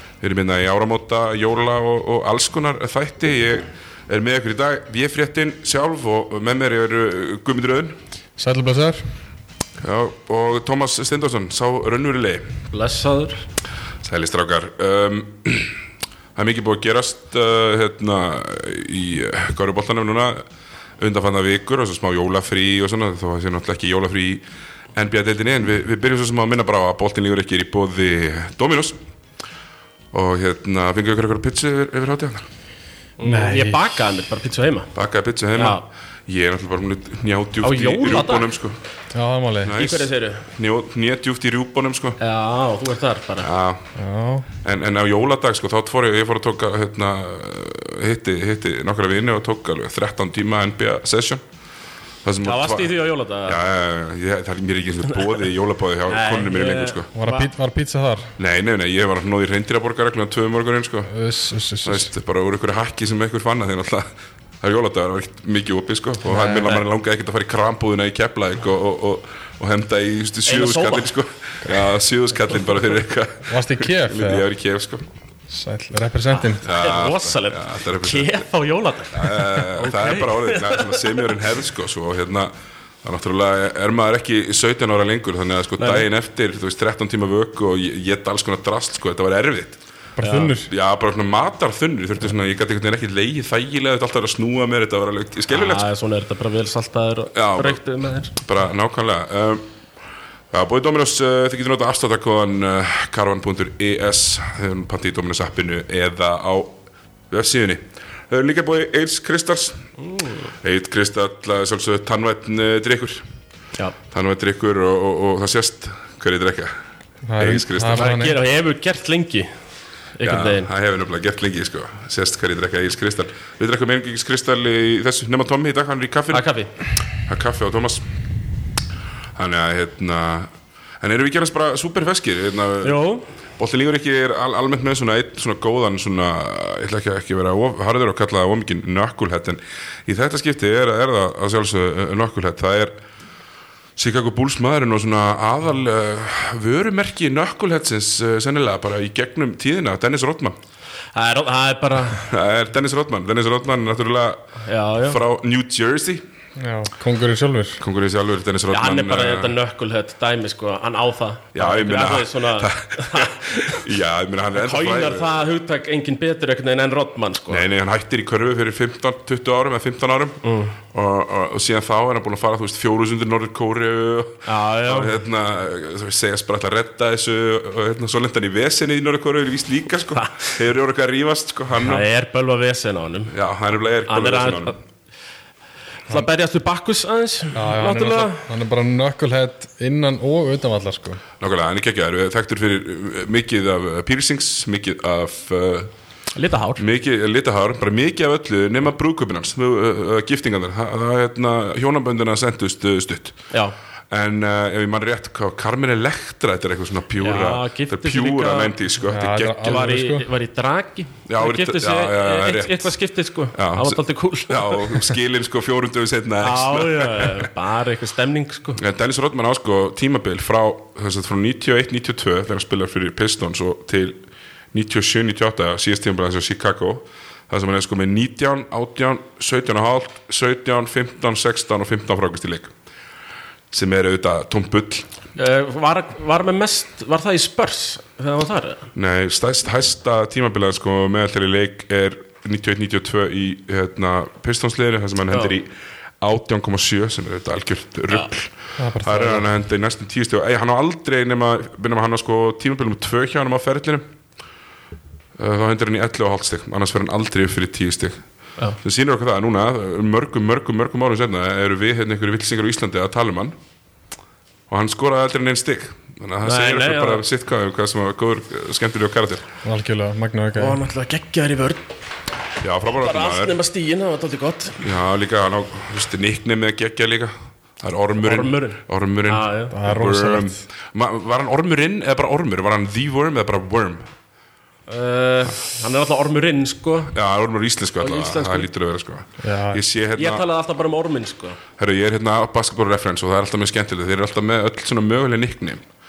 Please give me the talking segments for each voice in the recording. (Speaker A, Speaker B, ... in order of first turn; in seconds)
Speaker A: 0.2-8.0, 9.8-12.5, 14.0-15.8, 16.4-20.4, 21.0-24.4, 24.9-29.0, 30.1-32.5, 35.0-38.8, 39.6-42.2, 43.4-43.8, 44.6-51.4, 52.2-52.9, 53.5-57.1, 58.4-61.1, 61.9-64.1, 64.6-75.0, 76.6-78.4, 79.1-82.5, 83.0-89.8, 90.7-95.9, 97.3-97.8, 98.4-99.7, 100.5-106.8, 107.3-109.8, 110.6-113.2, 114.1-116.8, 117.4-118.1, 120.2-126.5, 127.3-128.0, 129.4-130.5, 131.0-133.0, 133.6-142.9, 144.0-150.6, 152.1-154.4, 155.0-156.2, 157.8-159.6, 161.6-165.4, 167.5-182.1, 183.3-184.8, 191.4-195.9, 196.8-203.4, 204.1-209.9, 211.3-212.9, 213.5-217.5, 218.8-232.7, 233.7-235.1, 238.9-245.7, 246.2-254.0, 255.4-258.2, 258.8-263.6, 264.7-269.4, 272.6-273.6, 274.8-284.1, 287.1-290.4, 291.8-295.9
Speaker B: 8.4-9.0, 33.2-33.8, 39.1-39.8, 44.0-44.5, 57.1-58.3, 61.1-62.1, 73.5-74.5, 75.5-76.7, 90.2-90.7, 117.3-118.4, 156.6-157.8, 187.5-191.2, 209.1-210.3, 248.8-249.5, 269.6-270.8, 279.7-280.6, 289.4-289.8
Speaker C: 12.7-13.4, 33.2-34.9, 35.6-35.8, 37.6-38.5, 39.8-40.5, 42.2-43.5, 52.4-53.6, 56.1-57.5, 66.3-66.8, 70.5-71.1, 76.3-81.3, 85.8-86.1, 90.2-90.5, 95.5-98.4, 110.0-110.5, 117.9-119.5, 120.2-120.7, 126.3-126.7, 132.8-133.2, 151.2-152.3, 154.7-155.2, 158.7-163.8, 164.6-167.7, 170.4-170.8, 174.5-175.1, 180.2-180.5, 181.8-183.3, 184.1-184.8, 186.1-188.4, 196.3-196.8, 207.2-208.8, 209.6-215.1, 216.4-218.8, 235.4-238.8, 266.4-267.2, 270.6-271.9, 272.9-274.8, 278.2-279.7, 284.9-287.1, 288.0-288.7, 290.2-291.6